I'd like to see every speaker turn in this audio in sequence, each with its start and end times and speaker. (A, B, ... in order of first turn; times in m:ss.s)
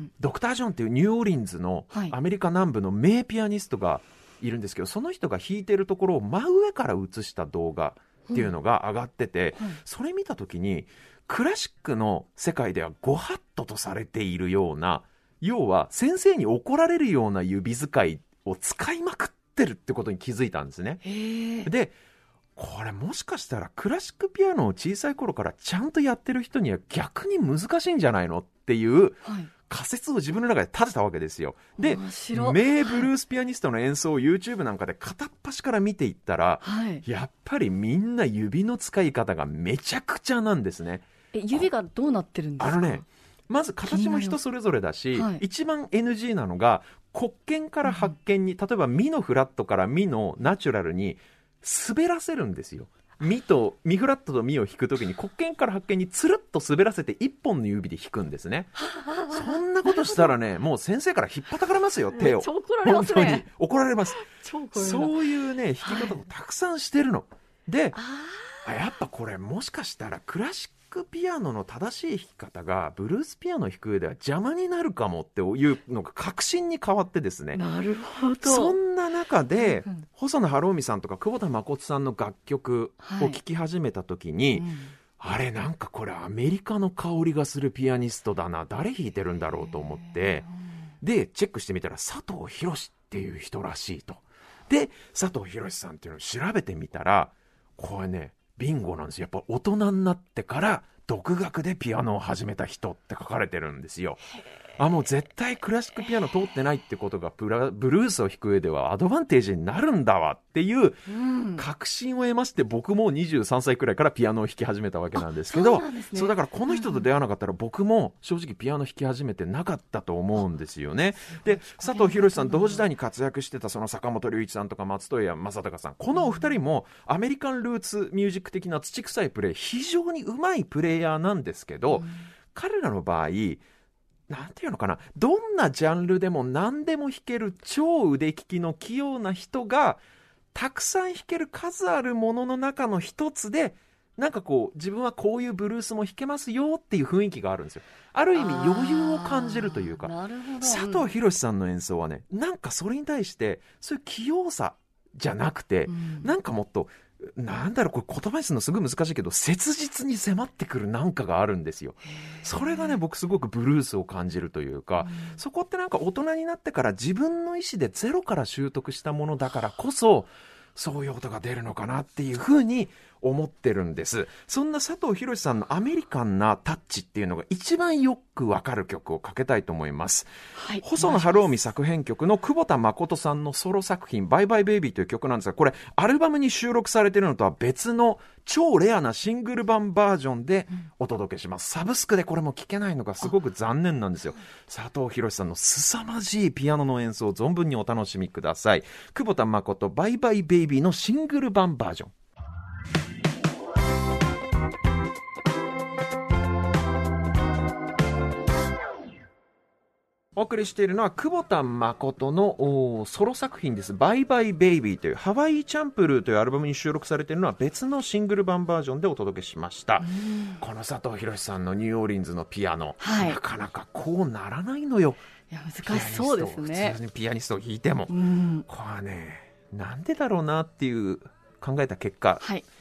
0:00.2-0:21.0 A
0:08.3-0:08.5 B
0:21.0-0:21.7 B
0:21.6-0:22.0 A
0:22.6-0:41.7 A
0:29.2-0:29.5 B
0:31.8-0:33.1 B
0:36.6-0:37.0 B
0:41.3-0:43.0 B
0:42.6-0:58.7 A
0:43.8-0:44.4 B
0:45.1-0:45.4 B
0:47.8-0:48.1 B
0:58.8-1:00.4 B
0:59.3-1:08.0 A
1:02.1-1:03.5 B
1:04.1-1:05.2 B
1:05.8-1:06.2 B
1:07.9-1:08.8 B
1:08.6-1:17.6 A
1:17.5-1:18.8 B
1:18.4-1:30.5 A
1:19.6-1:20.0 B
1:23.0-1:23.4 B
1:24.5-1:24.9 B
1:29.5-1:30.5 B
1:31.0-2:13.6 A
1:51.1-1:51.6 B
1:55.2-1:57.1 B
2:01.4-2:02.9 B
2:06.1-2:06.6 B
2:11.9-2:12.3 B
2:14.3-2:20.0 A
2:20.5-3:22.1 A
2:28.3-2:31.1 B
2:35.9-2:36.3 B
2:42.2-2:43.0 B
2:45.0-2:45.4 B
3:00.6-3:01.4 B
3:30.3-3:45.2 A
3:40.0-3:40.6 B
3:43.0-3:43.4 B
3:45.5-3:47.0 B
3:45.8-3:48.2 A
3:48.1-3:48.6 B
3:48.7-3:52.5 A